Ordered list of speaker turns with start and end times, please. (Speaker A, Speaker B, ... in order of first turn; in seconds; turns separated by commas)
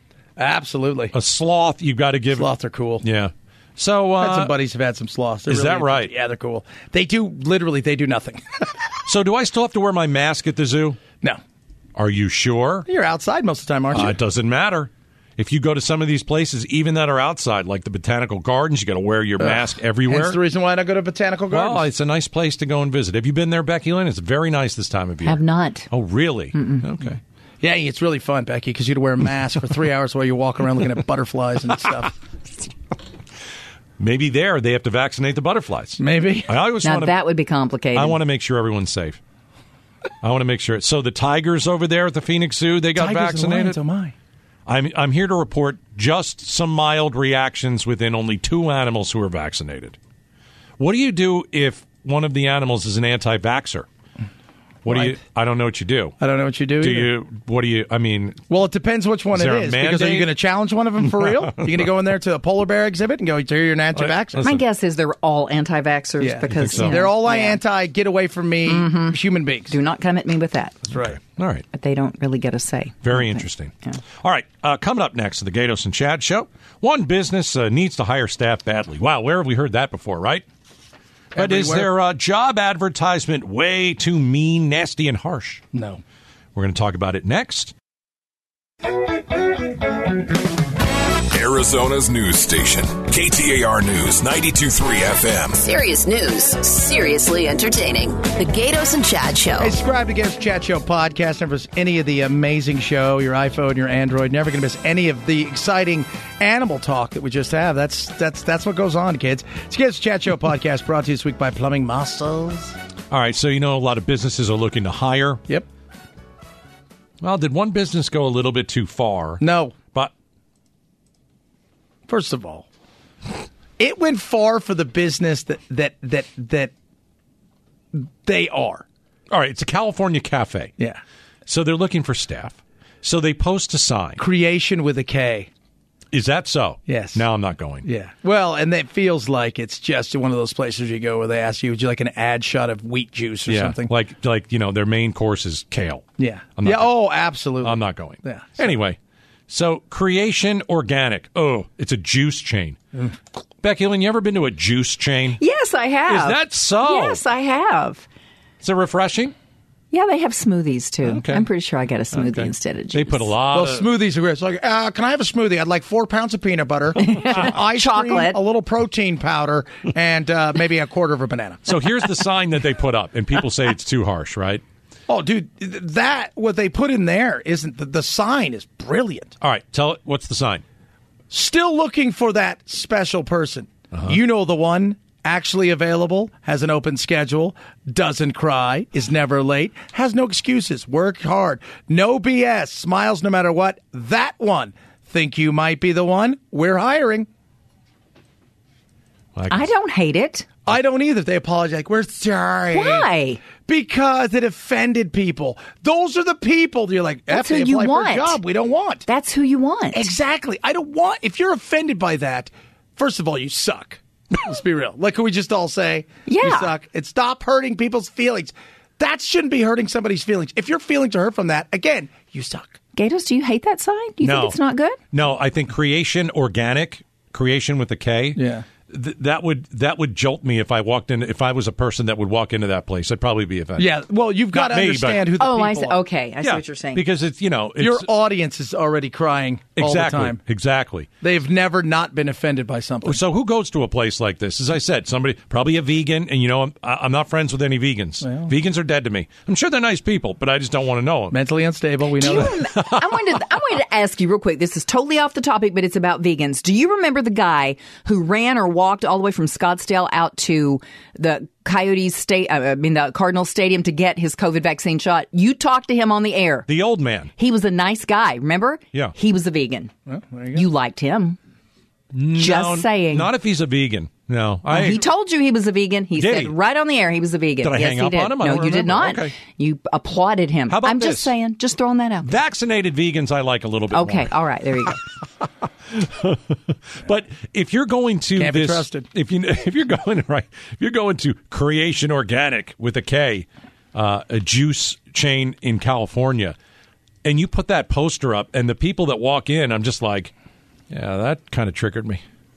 Speaker A: 0.4-1.1, Speaker B: 1.1-2.5, Speaker A: 2.3-3.0, Speaker B: 3.0-4.5, Speaker A: 4.2-8.7, Speaker B: 5.5-6.1, Speaker B: 9.1-11.0, Speaker B: 11.9-12.9, Speaker A: 12.9-14.2, Speaker B: 13.9-20.4, Speaker A: 19.4-21.9, Speaker B: 21.5-27.2, Speaker C: 25.2-25.9, Speaker C: 26.5-26.9, Speaker A: 27.6-32.1, Speaker B: 34.0-37.2, Speaker A: 36.0-36.5, Speaker C: 36.8-38.2, Speaker B: 37.9-39.2, Speaker B: 40.2-43.8, Speaker A: 43.0-44.1, Speaker B: 44.7-50.0, Speaker B: 50.8-53.9, Speaker B: 54.9-56.2, Speaker A: 54.9-55.2, Speaker A: 56.2-57.1, Speaker B: 56.8-58.4, Speaker A: 58.5-64.4, Speaker B: 59.3-60.3, Speaker B: 61.2-61.7, Speaker B: 64.0-64.6, Speaker C: 64.4-67.6, Speaker A: 66.2-69.8, Speaker B: 66.5-67.0, Speaker C: 68.7-70.8, Speaker A: 70.9-71.2, Speaker B: 70.9-71.7, Speaker C: 71.7-74.0, Speaker B: 73.0-80.5, Speaker A: 81.3-81.9, Speaker B: 81.3-85.6, Speaker A: 85.7-86.0, Speaker B: 86.5-87.7, Speaker D: 91.3-95.6, Speaker E: 95.6-99.8, Speaker A: 99.6-112.8, Speaker B: 113.1-115.4, Speaker B: 117.2-120.1, Speaker A: 119.4-119.8, Speaker A: 122.1-122.7, Speaker A: 123.8-126.7, Speaker A: 127.9-128.9, Speaker B: 129.3-130.7, Speaker B: 131.5-134.2, Speaker A: 134.2-135.5, Speaker B: 136.1-137.9, Speaker A: 136.9-137.2, Speaker A: 137.8-143.9, Speaker B: 143.5-146.1, Speaker A: 146.2-148.7, Speaker B: 146.6-146.9, Speaker B: 147.6-149.0, Speaker B: 149.5-152.8, Speaker B: 153.6-155.4, Speaker C: 155.4-158.1, Speaker B: 156.1-157.2, Speaker B: 158.6-159.3, Speaker C: 159.9-163.3, Speaker B: 161.0-161.5, Speaker B: 162.1-163.9, Speaker A: 163.5-171.7, Speaker C: 167.0-168.4, Speaker B: 171.7-174.6, Speaker A: 175.1-179.3, Speaker B: 179.4-180.6, Speaker A: 181.3-197.3, Speaker B: 199.3-199.7, Speaker C: 199.5-200.5, Speaker A: 200.7-203.1, Speaker C: 202.7-203.4, Speaker A: 203.6-209.1, Speaker C: 207.3-208.4, Speaker C: 209.1-210.0, Speaker A: 209.9-222.8, Speaker C: 216.3-216.7, Speaker C: 222.9-225.0, Speaker B: 224.2-224.6, Speaker B: 225.1-233.9, Speaker A: 228.4-228.7, Speaker A: 233.8-236.0, Speaker B: 234.5-235.3, Speaker C: 235.4-237.0, Speaker B: 236.4-238.1, Speaker A: 237.8-240.4, Speaker B: 239.8-241.1, Speaker A: 241.2-243.2, Speaker B: 243.1-251.4, Speaker A: 248.2-248.5, Speaker A: 251.3-252.6, Speaker C: 252.2-266.7, Speaker B: 252.3-253.0, Speaker B: 266.7-267.3, Speaker C: 267.4-269.9, Speaker A: 270.1-270.7, Speaker C: 270.5-271.4, Speaker B: 272.1-275.0, Speaker C: 272.3-273.3, Speaker C: 274.7-282.3, Speaker B: 276.2-276.6, Speaker B: 277.6-279.4, Speaker B: 280.7-281.3, Speaker B: 282.2-284.3, Speaker C: 283.9-285.0, Speaker B: 285.9-296.6, Speaker A: 288.4-289.1, Speaker B: 297.2-300.3, Speaker B: 300.9-302.2